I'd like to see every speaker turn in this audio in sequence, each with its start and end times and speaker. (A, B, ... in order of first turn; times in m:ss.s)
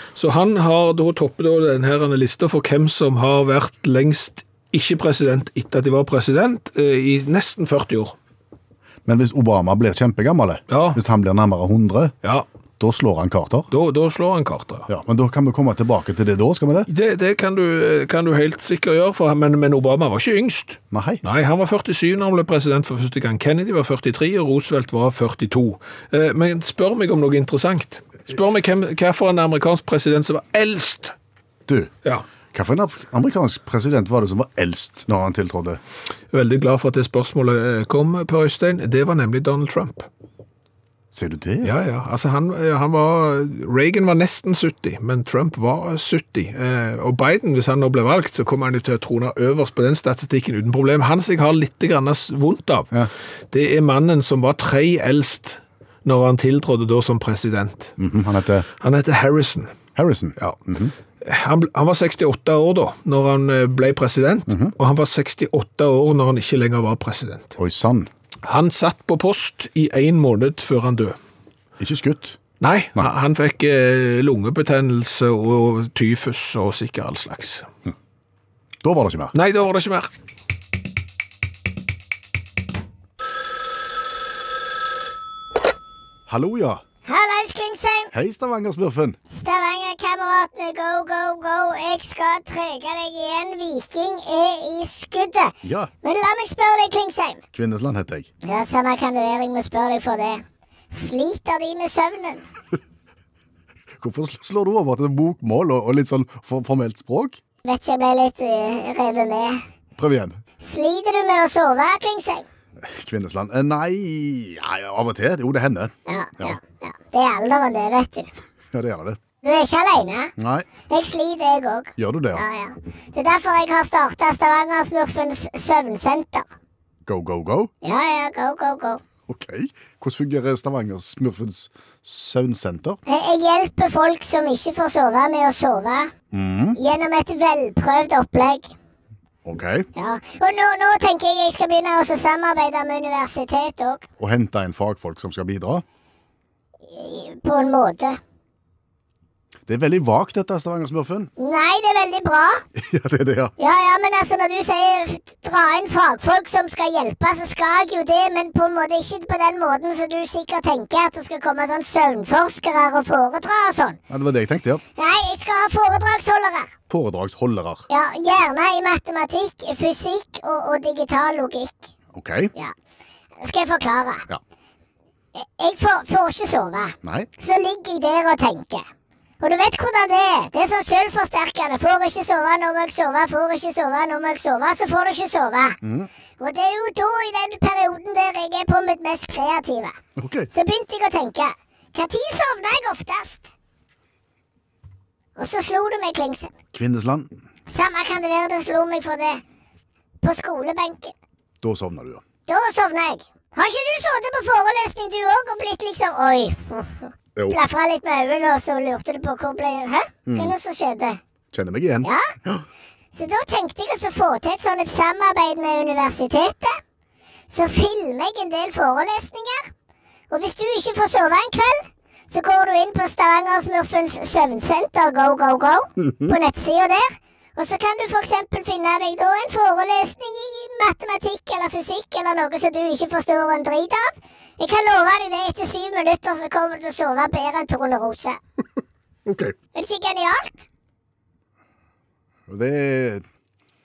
0:00.2-0:08.2 A
0:09.0-0:12.1 B
0:10.7-0:11.0 A
0:12.8-0:13.7 B
0:13.7-0:14.9 A
0:14.9-0:16.9 B
0:16.9-0:31.1 A
0:20.9-0:21.2 B
0:31.7-0:31.9 B
0:32.5-0:35.8 B
0:36.3-0:40.1 A
0:41.1-0:41.7 B
0:41.6-0:52.9 A
0:53.5-0:58.0 A
0:58.0-0:58.7 B
0:58.8-0:59.7 A
1:00.0-1:00.9 B
1:01.2-1:07.5 A
1:04.5-1:04.7 B
1:07.6-1:08.1 B
1:08.4-1:11.2 A
1:11.8-1:12.4 B
1:12.6-1:17.7 A
1:18.8-1:19.3 B
1:19.3-1:20.1 A
1:26.3-1:26.8 B
1:27.0-1:28.1 C
1:28.1-1:29.2 B
1:29.3-1:37.4 C
1:35.6-1:35.9 B
1:37.5-1:38.3 B
1:38.4-1:42.4 C
1:44.0-1:47.4 B
1:47.6-1:49.6 C
1:50.0-1:50.4 B
1:50.6-1:52.4 C
1:52.8-1:56.6 B
1:56.1-1:58.3 C
1:58.7-1:59.2 B
1:59.4-2:00.3 C
2:00.4-2:00.7 B
2:00.9-2:06.5 C
2:02.0-2:02.4 B
2:07.0-2:07.7 B
2:07.8-2:09.0 C
2:09.3-2:13.0 B
2:13.1-2:16.1 C
2:16.3-2:16.8 B
2:16.8-2:18.7 C
2:19.4-2:19.9 B
2:20.0-2:24.0 C
2:24.2-2:25.8 B
2:26.9-2:28.2 C
2:29.7-2:31.3 B
2:31.4-2:32.6 C
2:32.8-2:33.5 B
2:33.6-2:44.0 C
2:44.1-2:44.8 B
2:45.0-2:46.7 C
2:46.9-2:47.9 B
2:47.9-2:51.9 C
2:52.1-2:52.5 B
2:53.4-2:54.2 C
2:55.4-2:58.8 C
2:57.0-2:57.3 B
2:59.4-3:05.8 C
3:05.8-3:06.1 B
3:06.4-3:10.0 C
3:10.2-3:10.5 B
3:10.5-3:13.5 C
3:15.4-3:16.5 C
3:16.7-3:17.3 B
3:17.7-3:19.4 C
3:20.2-3:21.1 C
3:21.6-3:22.2 B
3:22.5-3:31.2 C
3:27.3-3:27.6 B
3:30.2-3:30.5 B
3:31.5-3:32.6 B
3:32.0-3:32.3 C
3:33.1-3:36.8 C
3:37.5-3:39.7 C
3:40.3-3:58.4 C
3:46.1-3:46.3 B
3:59.2-3:59.6 B
3:59.7-4:00.5 C
4:02.5-4:03.2 B